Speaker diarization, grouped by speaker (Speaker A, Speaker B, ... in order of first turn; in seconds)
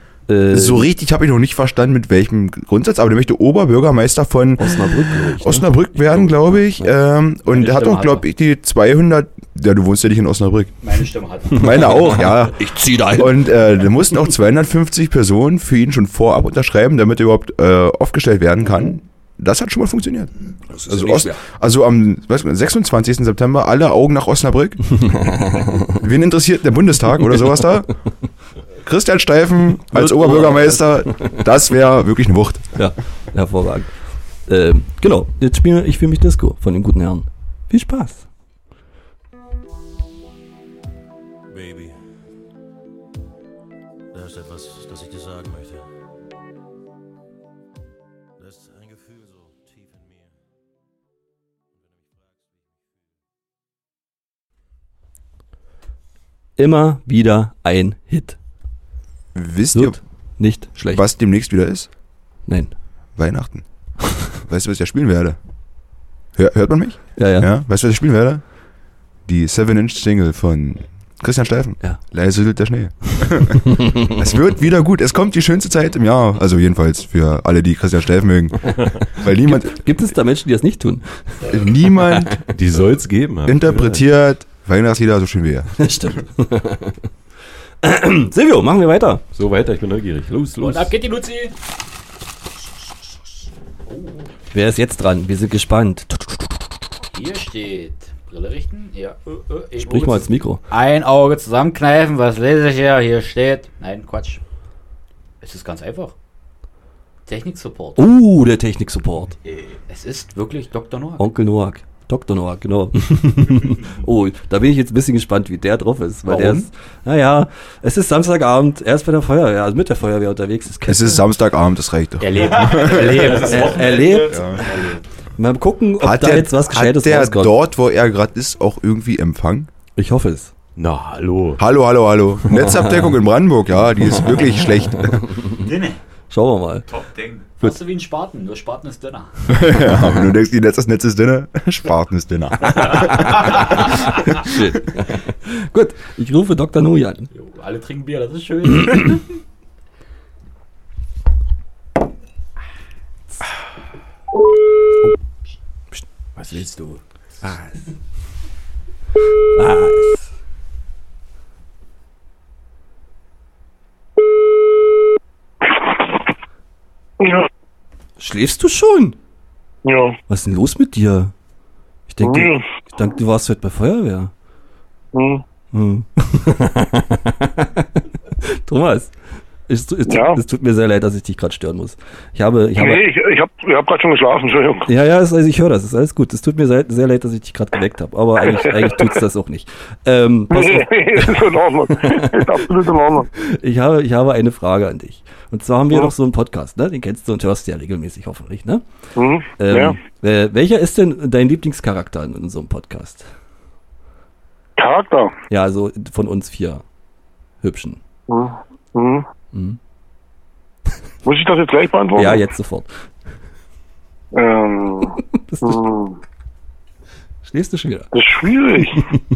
Speaker A: 0.3-0.9, 4.6-6.9, 11.6-13.4, 20.7-21.4, 25.1-25.9, 29.9-31.2, 32.8-33.9, 34.5-38.2, 56.6-58.4, 59.7-61.0, 62.5-62.7, 67.2-67.5, 79.4-81.5, 85.8-87.0, 87.8-89.2, 94.5-96.6, 99.8-100.6, 108.0-109.3, 111.2-121.2, 123.5-124.4, 125.4-127.5, 130.0-130.5, 136.3-136.9, 142.7-143.6, 144.3-147.3, 157.4-157.7, 159.6-160.2, 168.2-169.2, 170.3-171.3, 172.1-174.3, 175.7-177.9, 178.4-179.1, 179.7-183.0, 184.8-191.3, 193.4-198.8, 199.6-203.3, 205.5-206.8, 207.6-208.0, 209.5-209.8, 212.2-212.9, 215.5-215.8, 217.4-218.1
Speaker B: 0.5-10.7, 11.5-20.3, 20.8-25.0, 25.9-27.9, 28.8-32.8, 59.3-60.0, 60.8-61.9, 63.1-63.6, 64.3-65.4, 66.3-68.4, 69.2-79.8, 81.4-82.4, 83.5-85.8, 120.9-123.4, 124.3-124.6, 126.0-129.7, 131.6-135.2, 139.5-143.5
Speaker C: 7.5-8.3, 10.8-12.1, 90.6-91.5, 93.9-94.3, 97.1-104.4, 105.4-106.1, 107.3-108.0, 109.9-111.2, 116.2-116.7, 122.2-125.0, 135.6-136.0, 137.6-139.3, 147.3-149.2
Speaker D: 41.5-41.9, 44.1-45.9, 48.4-50.3, 51.8-52.5
Speaker E: 82.5-84.0, 89.3-90.9, 130.8-131.6
Speaker F: 122.7-124.6, 136.9-137.5
Speaker G: 167.2-167.5, 169.8-170.2, 172.2-172.6, 175.1-175.4, 180.1-180.4, 182.8-184.9, 190.5-193.3, 199.2-200.0, 204.8-205.3, 208.3-209.2, 211.2-212.4, 214.3-216.2, 218.1-219.0